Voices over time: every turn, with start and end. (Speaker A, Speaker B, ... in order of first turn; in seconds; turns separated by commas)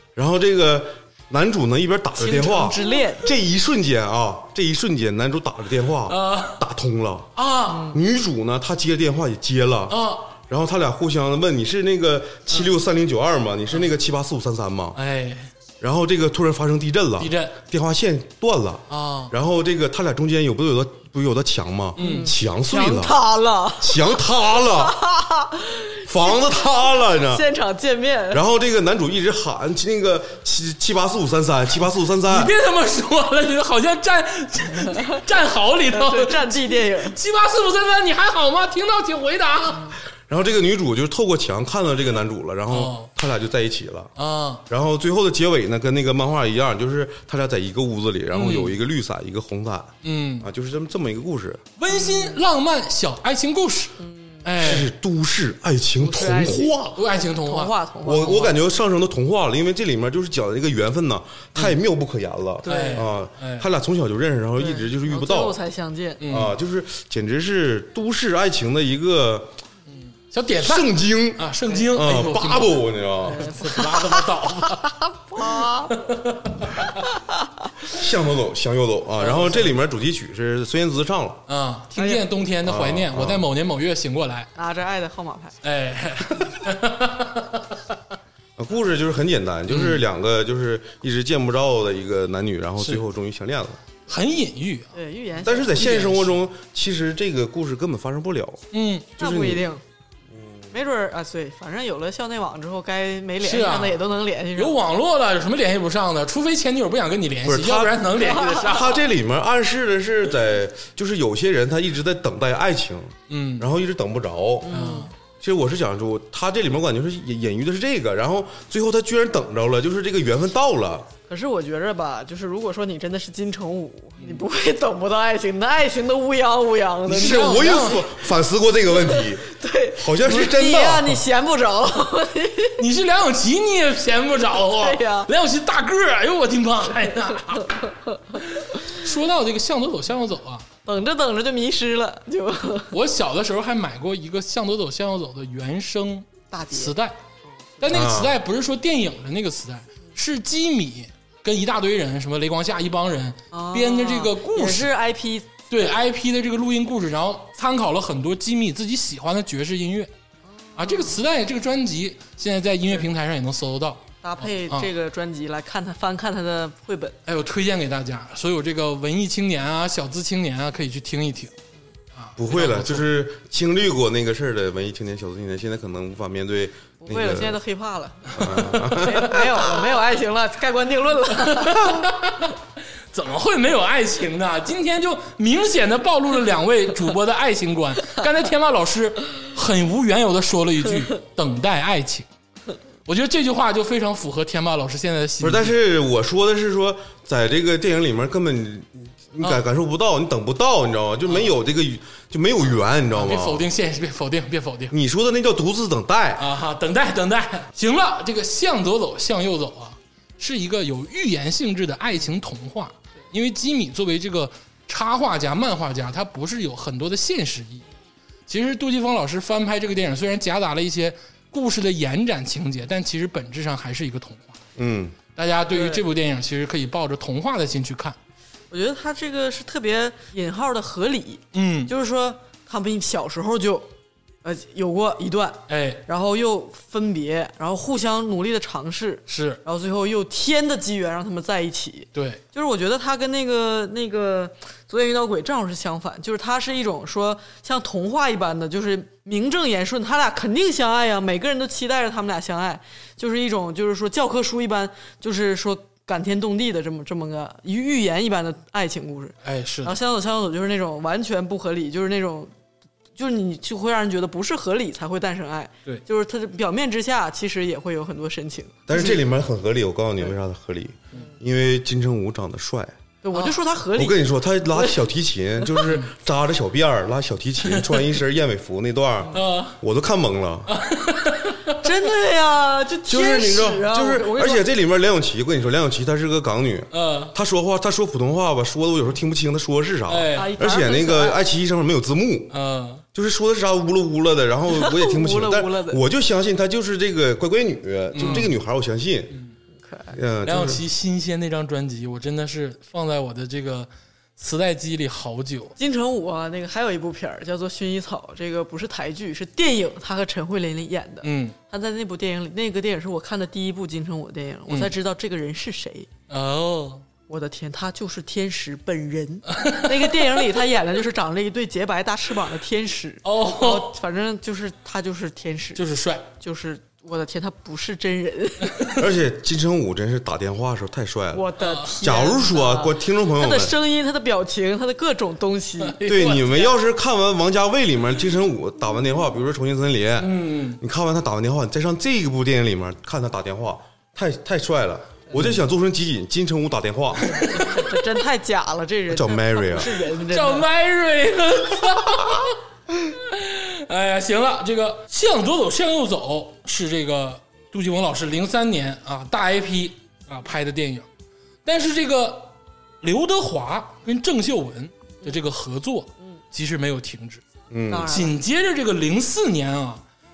Speaker A: 0.2-7.3, Speaker B: 2.2-3.3, Speaker C: 6.1-6.6, Speaker C: 7.4-7.9, Speaker B: 7.7-8.0, Speaker A: 7.8-15.0, Speaker C: 9.9-10.3, Speaker C: 14.9-15.5, Speaker A: 15.8-23.2, Speaker C: 17.2-17.6, Speaker C: 18.9-19.3, Speaker B: 22.0-26.4, Speaker C: 22.0-22.3, Speaker A: 23.8-25.0, Speaker A: 26.1-27.4, Speaker B: 27.1-28.4, Speaker A: 28.3-32.5, Speaker C: 32.2-40.0, Speaker B: 35.9-37.2, Speaker A: 40.3-44.1, Speaker C: 42.7-43.1, Speaker C: 44.2-44.6, Speaker A: 44.7-51.6, Speaker C: 48.3-48.8, Speaker C: 50.0-50.5, Speaker C: 51.8-54.9, Speaker B: 51.9-52.4, Speaker B: 54.0-54.5, Speaker A: 54.6-57.0, Speaker B: 56.0-58.5, Speaker C: 57.0-58.5, Speaker A: 58.0-65.6, Speaker B: 62.6-63.0, Speaker C: 62.6-63.7, Speaker B: 64.6-66.2, Speaker C: 66.2-66.5, Speaker A: 66.3-69.6, Speaker C: 69.9-77.0, Speaker A: 70.6-73.5, Speaker B: 73.3-76.1, Speaker A: 77.9-81.4, Speaker C: 79.2-79.7, Speaker C: 81.5-84.5, Speaker B: 82.0-82.3, Speaker A: 82.6-83.5, Speaker B: 84.5-85.5, Speaker C: 85.6-87.8, Speaker A: 88.6-93.8, Speaker C: 89.7-90.0, Speaker C: 94.1-94.9, Speaker B: 94.9-95.8, Speaker A: 95.4-98.6, Speaker C: 95.7-96.3, Speaker C: 98.7-99.1, Speaker A: 99.2-99.6, Speaker B: 99.2-99.8, Speaker A: 100.3-100.7, Speaker B: 100.7-104.8, Speaker C: 103.4-104.0, Speaker C: 104.5-109.0, Speaker A: 107.4-114.7, Speaker B: 108.1-108.9, Speaker C: 113.3-113.7, Speaker B: 114.6-115.1, Speaker C: 114.7-115.1, Speaker A: 115.4-121.1, Speaker B: 121.3-128.0, Speaker A: 127.0-131.2, Speaker C: 127.1-128.1, Speaker B: 129.0-132.8, Speaker C: 132.8-140.7, Speaker B: 134.7-135.3, Speaker B: 140.9-142.9, Speaker C: 142.9-147.2, Speaker B: 146.5-146.9, Speaker C: 147.8-154.9, Speaker A: 147.9-148.4, Speaker B: 153.5-155.6, Speaker C: 155.7-160.1, Speaker B: 160.7-161.2, Speaker C: 160.8-164.9, Speaker B: 164.2-167.2, Speaker C: 167.3-171.5, Speaker C: 172.1-173.1, Speaker A: 172.4-177.6, Speaker B: 177.0-182.1, Speaker A: 178.3-179.4, Speaker C: 181.4-182.6, Speaker C: 183.1-192.3, Speaker C: 193.1-195.7, Speaker A: 195.4-203.7, Speaker C: 203.1-204.9, Speaker A: 204.9-206.5, Speaker C: 206.4-217.8, Speaker C: 218.5-224.6, Speaker A: 224.8-225.2, Speaker C: 225.4-228.2, Speaker B: 225.7-226.0, Speaker B: 228.7-233.9, Speaker C: 231.5-231.9, Speaker B: 234.4-262.5, Speaker C: 235.7-236.0, Speaker C: 239.3-239.6, Speaker C: 242.1-242.4, Speaker C: 259.4-259.9, Speaker B: 263.2-268.9, Speaker A: 268.9-272.9, Speaker C: 268.9-269.2, Speaker B: 273.2-275.0, Speaker A: 273.9-280.7, Speaker C: 277.6-278.1, Speaker C: 279.3-279.8, Speaker C: 280.7-281.9, Speaker B: 281.7-284.6, Speaker A: 283.1-292.5, Speaker C: 286.9-287.3, Speaker C: 290.1-290.5, Speaker B: 290.3-291.4, Speaker C: 292.5-293.0, Speaker A: 293.1-299.3, Speaker B: 294.7-296.0, Speaker C: 298.1-298.5, Speaker B: 299.8-300.1, Speaker A: 300.1-300.8, Speaker C: 300.4-305.7, Speaker B: 305.8-316.1, Speaker C: 311.2-311.6, Speaker C: 316.3-317.1, Speaker B: 317.3-328.9, Speaker C: 319.5-320.4, Speaker C: 323.2-323.9, Speaker C: 325.8-326.2, Speaker A: 328.9-331.5, Speaker B: 331.3-336.0, Speaker C: 331.6-331.9, Speaker A: 332.0-333.7, Speaker C: 335.8-336.7, Speaker A: 336.1-347.4, Speaker C: 340.2-340.8, Speaker C: 347.2-347.9, Speaker B: 347.4-350.7, Speaker A: 349.1-349.9, Speaker C: 350.1-361.1, Speaker C: 361.6-367.4, Speaker A: 367.7-368.1, Speaker B: 367.9-368.4, Speaker C: 368.1-370.0